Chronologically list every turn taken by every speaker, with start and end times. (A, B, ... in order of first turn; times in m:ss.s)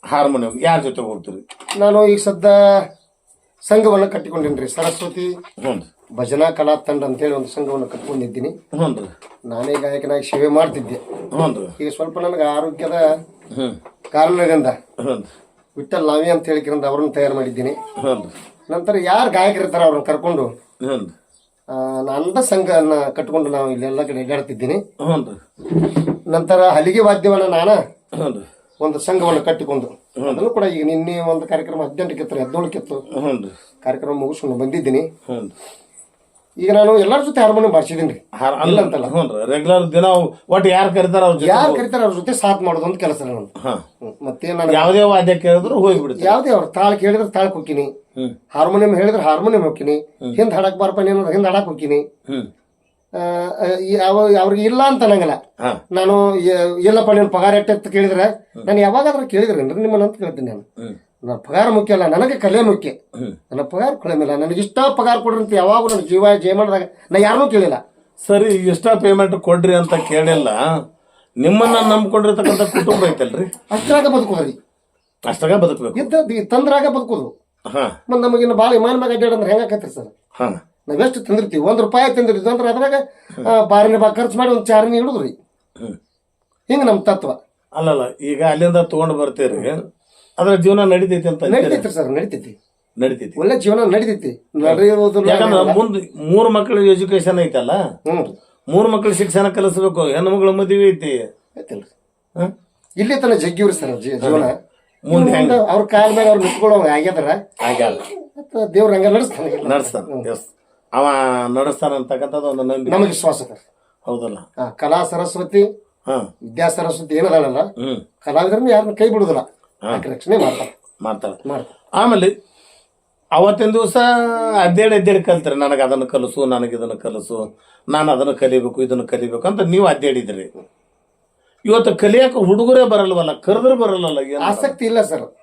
0:00.1-0:01.4 A
0:01.8-0:02.6 B
0:03.7-0:05.3 B
0:05.6-0:05.8 A
0:06.2-0:08.6 B
0:08.8-0:09.1 A
0:09.5-0:11.0 B
0:11.3-0:11.7 A
0:11.8-0:13.0 B
0:13.5-0:13.8 A
0:14.1-0:14.8 B
0:15.0-0:15.3 A
0:15.8-0:17.8 B
0:18.0-0:18.3 A
0:18.7-0:20.5 B
0:20.8-0:21.1 A
0:21.7-0:24.8 B
0:25.0-0:25.4 A
0:26.3-0:27.8 B
0:28.2-0:28.5 A
0:28.8-0:33.0 B
0:30.2-0:30.4 A
0:33.1-0:33.5 A
0:33.8-0:35.1 B
0:35.3-0:35.5 A
0:36.6-0:39.1 B
0:38.4-0:41.8 A
0:41.4-0:43.5 B
0:44.0-0:44.9 B
0:44.7-0:46.4 A
0:45.8-0:47.9 B
0:48.5-0:52.0 B
0:53.2-0:55.4 B
0:55.9-1:00.6 B
1:01.3-1:03.0 B
1:03.5-1:07.8 B
1:08.2-1:10.6 A
1:11.4-1:13.5 A
1:13.7-1:14.6 B
1:15.3-1:16.1 A
1:16.0-1:17.3 B
1:17.7-1:18.0 A
1:18.1-1:20.1 B
1:20.9-1:25.3 B
1:26.7-1:27.4 B
1:27.8-1:29.8 A
1:30.4-1:31.9 A
1:31.5-1:32.6 B
1:33.0-1:33.4 A
1:33.4-1:35.8 B
1:34.6-1:37.8 A
1:38.1-1:38.3 B
1:38.7-1:41.2 A
1:41.6-1:41.9 B
1:43.0-1:44.5 B
1:44.2-1:44.5 A
1:45.0-1:45.6 A
1:45.1-1:47.4 B
1:47.6-1:48.0 A
1:48.4-1:50.3 B
1:49.6-1:53.2 A
1:52.9-1:53.6 B
1:54.1-1:54.4 A
1:54.7-1:55.6 B
1:56.5-1:57.7 B
1:58.2-2:00.7 B
2:01.0-2:01.4 A
2:01.4-2:01.7 B
2:02.0-2:02.3 A
2:03.4-2:10.5 A
2:11.7-2:14.8 A
2:14.4-2:15.3 B